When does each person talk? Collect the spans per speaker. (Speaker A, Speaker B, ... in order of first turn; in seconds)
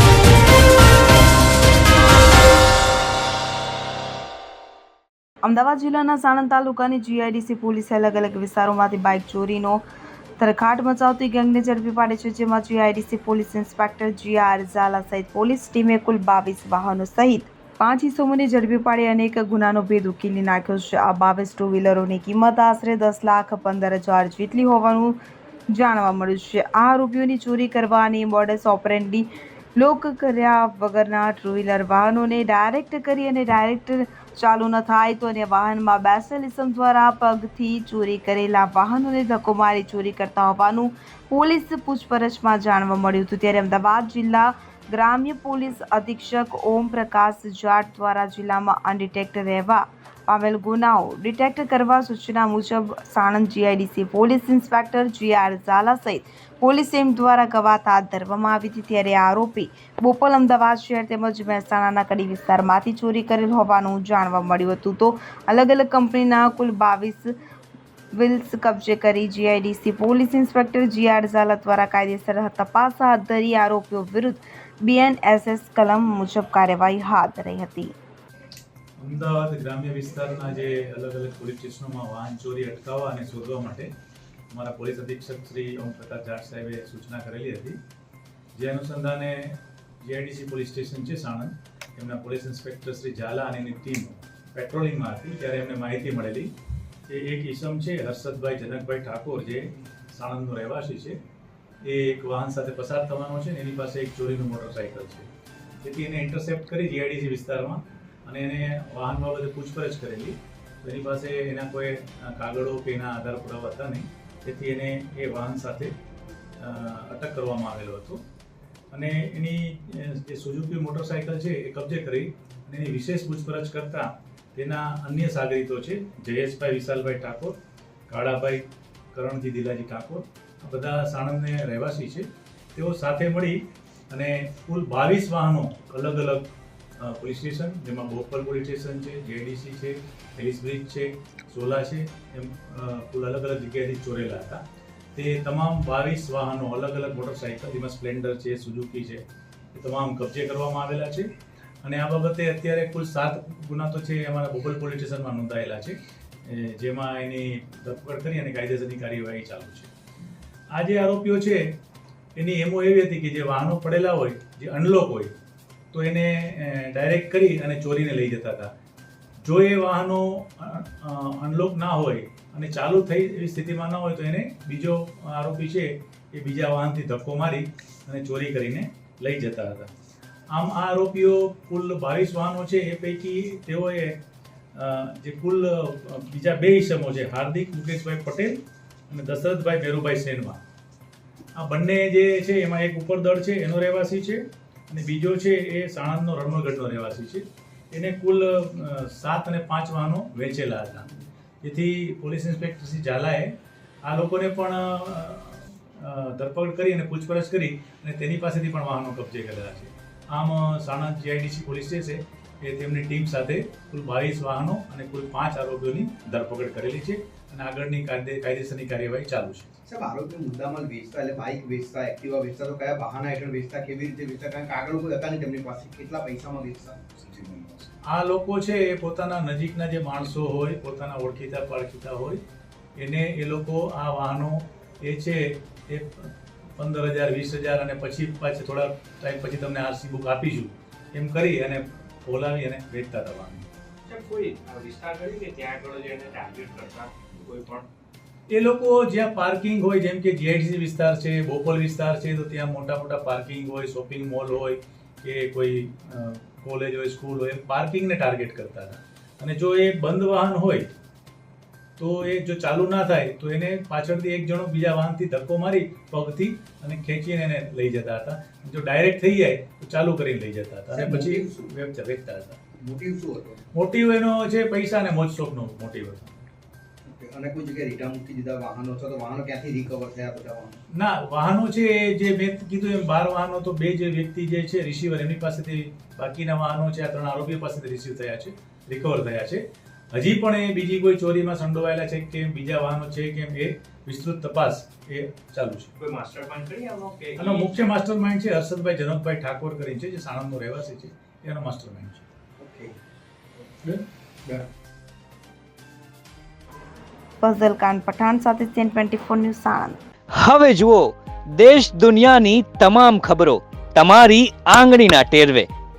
Speaker A: 5.4-9.8, 10.4-25.2, 25.7-67.3, 68.1-77.9, 307.4-310.0
Speaker B: 79.0-83.9, 84.5-87.8, 88.5-96.5, 97.1-101.2, 101.8-105.3, 105.8-116.0, 116.6-118.2, 118.9-127.6, 128.1-144.6, 145.2-151.3, 151.8-159.9, 160.7-161.8, 162.4-165.3, 165.9-168.7, 169.4-179.9, 180.5-184.2, 184.7-188.6, 189.1-190.6, 191.6-219.7, 228.1-232.4, 233.0-243.7, 248.5-260.9, 262.0-272.6, 273.7-276.3, 280.9-295.9, 297.4-302.3
Speaker C: 219.9-227.4, 270.9-271.7, 272.8-273.6, 277.1-280.8, 302.6-302.9, 303.8-304.7
Speaker D: 244.1-247.9, 296.0-297.8
Speaker E: 310.3-315.7